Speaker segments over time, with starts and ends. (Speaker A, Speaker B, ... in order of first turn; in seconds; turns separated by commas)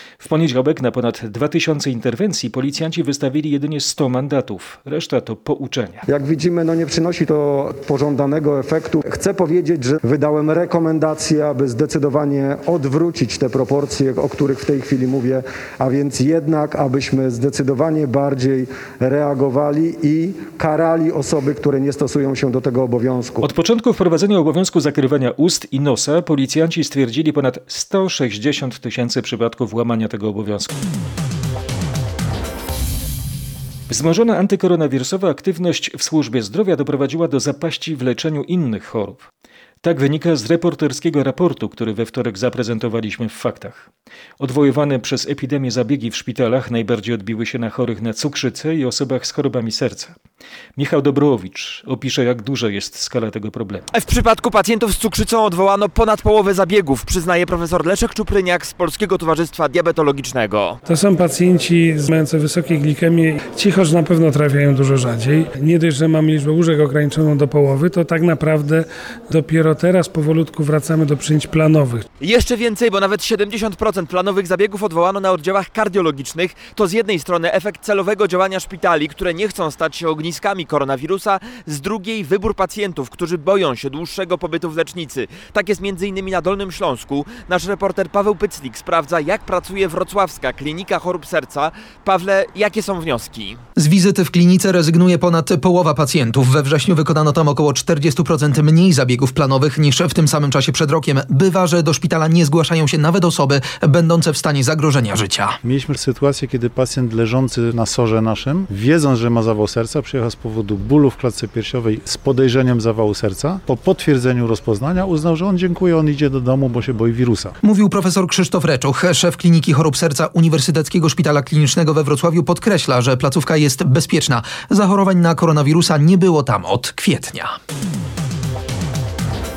Speaker A: 0.2-6.0, Speaker B: 6.1-23.5, Speaker A: 23.4-30.8, Speaker A: 33.9-39.3, Speaker A: 39.8-43.9, Speaker A: 44.4-50.2, Speaker A: 50.8-53.9, Speaker C: 53.9-60.8, Speaker D: 61.1-64.2, Speaker D: 65.7-68.5, Speaker D: 69.3-71.9, Speaker C: 72.2-93.6, Speaker E: 93.8-105.6, Speaker F: 105.6-117.5, Speaker E: 117.6-127.5